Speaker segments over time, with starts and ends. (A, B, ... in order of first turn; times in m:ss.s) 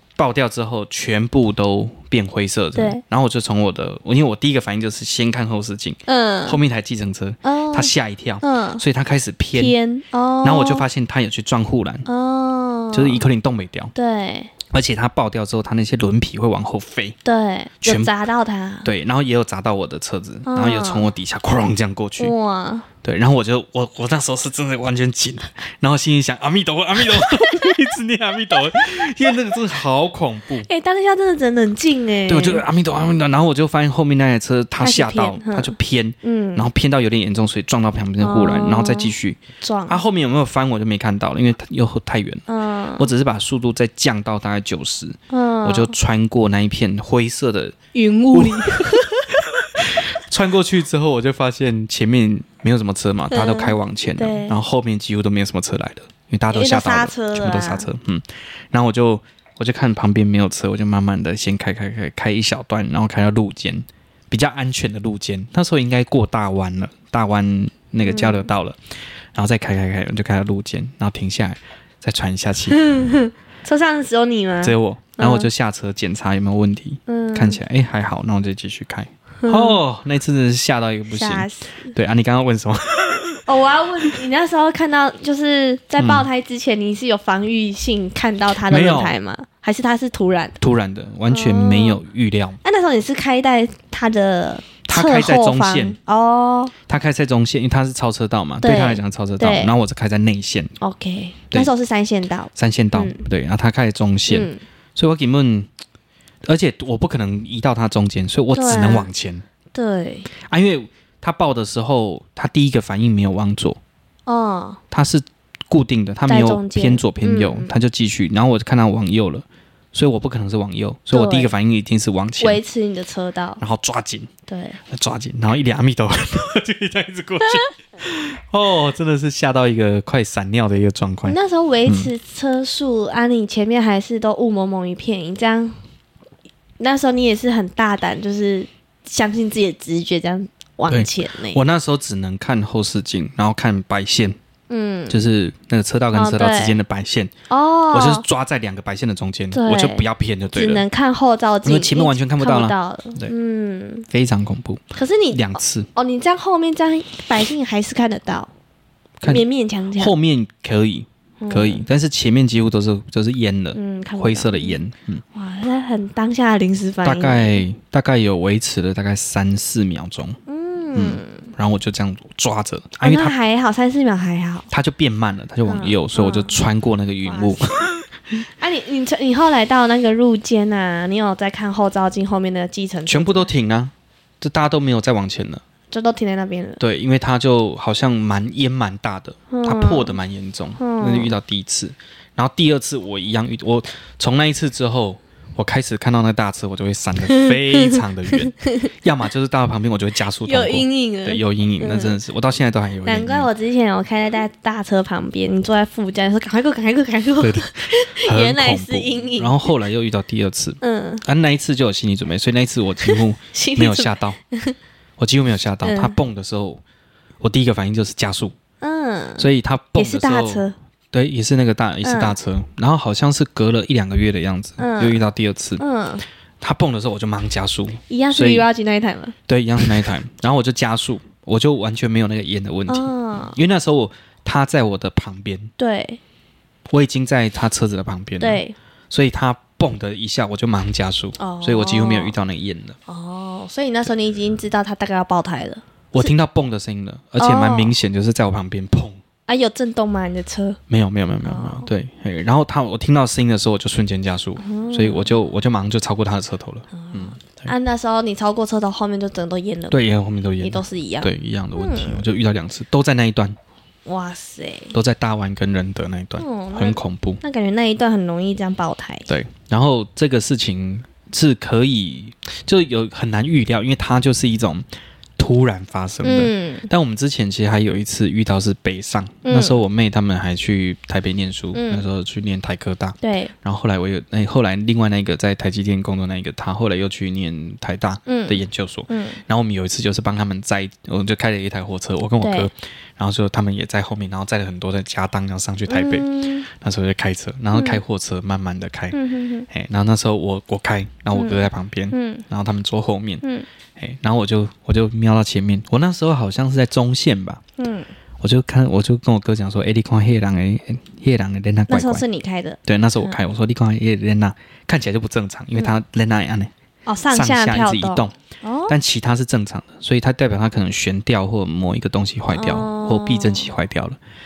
0:00.2-0:09.8 A
0:02.7-0:03.0 B
0:06.1-0:06.6 B
0:07.4-0:07.9 B
0:08.4-0:08.8 B
0:09.5-0:10.8 B
0:10.4-0:12.0 A
0:12.0-0:13.2 B
0:12.9-0:13.9 A
0:13.9-0:14.5 B
0:14.7-0:17.2 A
0:17.2-0:18.9 B
0:17.8-0:18.1 A
0:18.8-0:22.3 A
0:20.4-0:21.1 B
0:22.2-0:22.8 B
0:23.0-0:30.7 A
0:27.3-0:27.7 B
0:30.6-0:32.6 B
0:32.2-0:42.4 A
0:34.8-0:36.7 B
0:38.2-0:40.0 B
0:42.5-0:43.1 B
0:43.0-0:47.8 A
0:45.3-0:45.9 B
0:47.9-0:49.2 B
0:48.3-1:12.8 A
0:53.3-0:54.5 B
0:56.5-0:57.9 B
1:08.0-1:08.5 B
1:12.7-1:15.5 B
1:14.6-1:23.5 A
1:17.1-1:17.6 B
1:19.4-1:19.8 B
1:21.1-1:21.9 B
1:23.4-1:30.6 B
1:26.0-1:26.3 A
1:28.7-1:29.1 A
1:30.6-1:32.6 A
1:31.3-1:32.0 B
1:32.6-1:36.7 B
1:34.8-1:36.0 A
1:36.9-1:40.7 A
1:38.6-1:39.7 B
1:40.8-1:43.2 B
1:42.5-1:45.7 A
1:44.3-1:44.6 B
1:46.4-1:49.4 A
1:48.5-1:49.1 B
1:49.7-1:50.3 B
1:50.3-1:53.8 A
1:54.3-1:54.8 B
1:54.9-2:02.6 A
1:56.3-1:57.7 B
2:01.1-2:01.5 B
2:02.4-2:03.6 B
2:03.6-2:04.3 A
2:04.5-2:04.8 B
2:04.9-2:12.1 A
2:11.2-2:15.8 B
2:16.8-2:21.6 B
2:20.9-2:24.4 A
2:24.7-2:25.2 B
2:25.1-2:27.3 A
2:26.1-2:26.8 B
2:27.5-2:28.2 B
2:27.9-2:30.8 A
2:29.5-2:34.0 B
2:31.6-2:33.3 A
2:34.1-2:35.9 A
2:35.0-2:38.5 B
2:39.2-2:40.1 B
2:40.0-2:45.2 A
2:41.4-2:41.8 B
2:43.7-2:44.8 B
2:45.3-2:47.6 B
2:47.0-2:50.4 A
2:50.5-2:51.5 B
2:50.9-2:53.3 A
2:53.0-2:54.7 B
2:54.7-2:57.9 A
2:55.7-2:56.6 B
2:57.2-2:57.8 B
2:58.6-3:03.5 B
3:03.1-3:05.6 A
3:05.9-3:06.8 B
3:06.8-3:23.5 A
3:09.5-3:10.2 B
3:10.8-3:11.3 B
3:17.2-3:18.9 B
3:20.4-3:22.2 B
3:23.0-3:29.7 B
3:27.4-3:34.4 A
3:30.8-3:31.2 B
3:33.0-3:34.8 B
3:35.2-3:36.8 A
3:35.8-3:36.2 B
3:37.4-3:38.5 A
3:38.8-3:40.7 B
3:39.4-3:45.8 A
3:42.0-3:42.4 B
3:44.8-3:45.2 B
3:45.8-3:46.2 B
3:46.6-3:48.7 A
3:48.1-3:50.0 B
3:49.5-3:55.7 A
3:52.9-3:53.6 B
3:55.8-3:56.2 B
3:56.9-4:03.0 A
3:58.4-3:58.7 B
4:01.4-4:02.3 B
4:03.1-4:06.3 B
4:06.1-4:09.2 A
4:07.4-4:08.0 B
4:09.5-4:10.8 B
4:10.9-4:17.7 A
4:11.4-4:11.9 B
4:14.6-4:15.4 B
4:16.9-4:20.0 B
4:19.9-4:23.6 A
4:20.6-4:22.2 B
4:24.0-4:24.9 B
4:24.9-4:27.4 A
4:26.4-4:29.3 B
4:29.3-4:34.8 A
4:35.4-5:03.4 A
4:36.2-4:36.9 B
4:39.4-4:39.8 B
4:41.7-4:42.0 B
4:43.2-4:43.5 B
4:48.3-4:49.4 B
4:52.4-4:52.7 B
4:55.9-4:56.7 B
4:57.7-4:58.0 B
4:59.1-4:59.7 B
5:01.3-5:02.4 B
5:04.0-5:07.6 A
5:07.8-5:08.1 B
5:08.4-5:12.2 A
5:11.9-5:13.4 B
5:12.8-5:16.7 A
5:17.1-5:19.0 B
5:17.3-5:18.3 A
5:18.9-5:24.2 A
5:22.5-5:23.7 B